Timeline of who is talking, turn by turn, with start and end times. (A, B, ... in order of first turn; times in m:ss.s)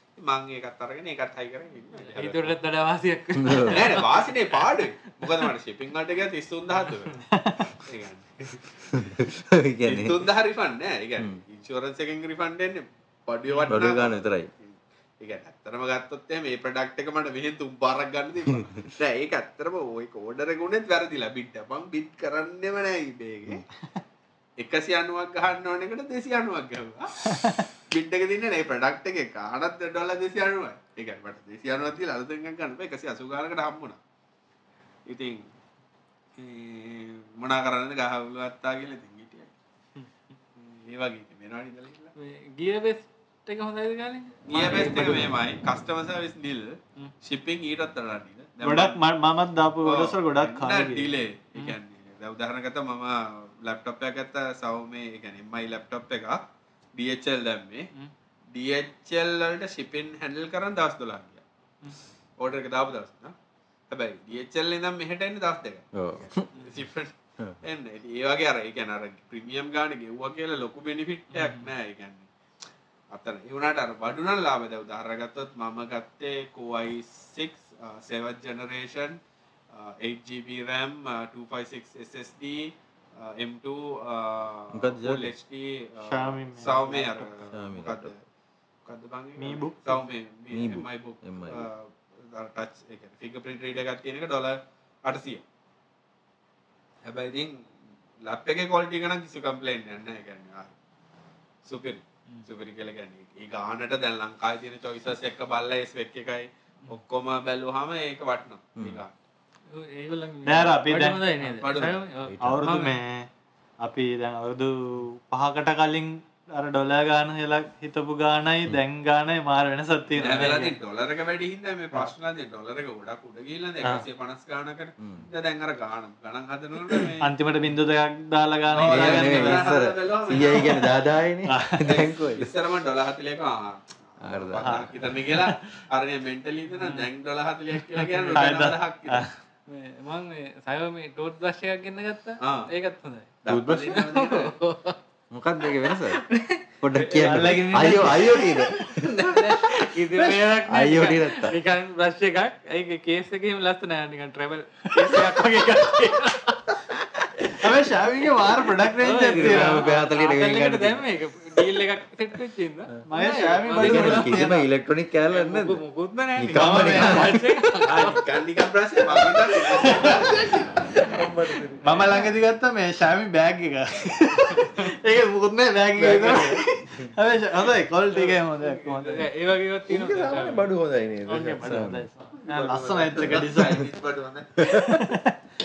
0:00.2-0:02.5 A
0:02.0-0:04.6 B
0:03.3-0:03.9 C
0:03.7-0:07.2 A
0:07.3-0:07.8 D
0:07.8-0:09.1 A
0:08.9-0:10.2 C
0:09.8-0:23.6 A
0:13.5-0:13.7 B
0:13.7-0:14.5 C
0:24.6-0:34.0 A
0:27.2-0:27.7 D
0:35.1-0:35.5 A
0:36.4-0:39.5 A
0:40.6-0:42.1 A
0:42.2-0:45.3 B
0:44.5-0:49.0 A
0:48.6-0:51.2 D
0:49.8-0:56.4 A
0:56.9-0:57.9 A
0:58.5-1:01.4 A
1:02.4-1:03.3 A
1:03.9-1:05.8 A
1:05.9-1:06.5 C
1:06.4-1:12.3 A
1:11.3-1:11.7 B
1:13.1-1:19.2 A
1:19.7-1:28.1 A
1:24.7-1:25.3 C
1:26.0-1:27.3 D
1:27.5-1:28.1 C
1:28.8-1:35.4 A
1:29.4-1:30.0 D
1:30.5-1:31.7 C
1:37.0-1:37.6 A
1:38.2-1:40.7 A
1:41.6-1:49.1 A
1:48.8-1:49.0 C
1:49.7-1:53.0 B
1:50.4-1:51.8 D
1:51.6-1:52.0 A
1:52.2-1:52.7 C
1:52.4-1:53.3 D
1:53.8-2:00.7 D
2:00.2-2:07.3 A
2:05.0-2:05.3 C
2:07.2-2:09.8 D
2:08.7-2:10.9 A
2:08.8-2:12.5 C
2:11.4-2:12.0 D
2:11.8-2:19.2 A
2:14.2-2:14.9 C
2:14.6-2:15.6 D
2:16.8-2:17.0 B
2:18.1-2:18.5 B
2:18.3-2:19.3 D
2:19.7-2:25.0 B
2:22.4-2:22.7 A
2:23.4-2:24.5 A
2:23.5-2:23.9 C
2:25.3-2:26.2 C
2:25.8-2:36.7 B
2:26.8-2:29.5 C
2:27.2-2:28.7 D
2:30.6-2:31.6 C
2:35.0-2:35.4 D
2:37.6-2:39.9 D
2:39.0-2:44.5 B
2:39.1-2:41.0 C
2:43.1-2:44.6 D
2:43.7-2:45.8 C
2:45.2-2:48.2 B
2:46.4-2:47.5 C
2:46.5-2:47.4 D
2:47.9-2:50.9 A
2:49.6-2:50.7 D
2:50.0-2:52.2 C
2:51.8-2:59.3 D
2:52.0-2:52.2 B
2:56.0-2:56.6 B
2:56.0-2:57.1 C
2:58.1-3:00.7 B
2:59.9-3:02.1 C
3:01.3-3:03.9 D
3:02.4-3:04.7 A
3:04.6-3:05.0 C
3:04.6-3:05.4 D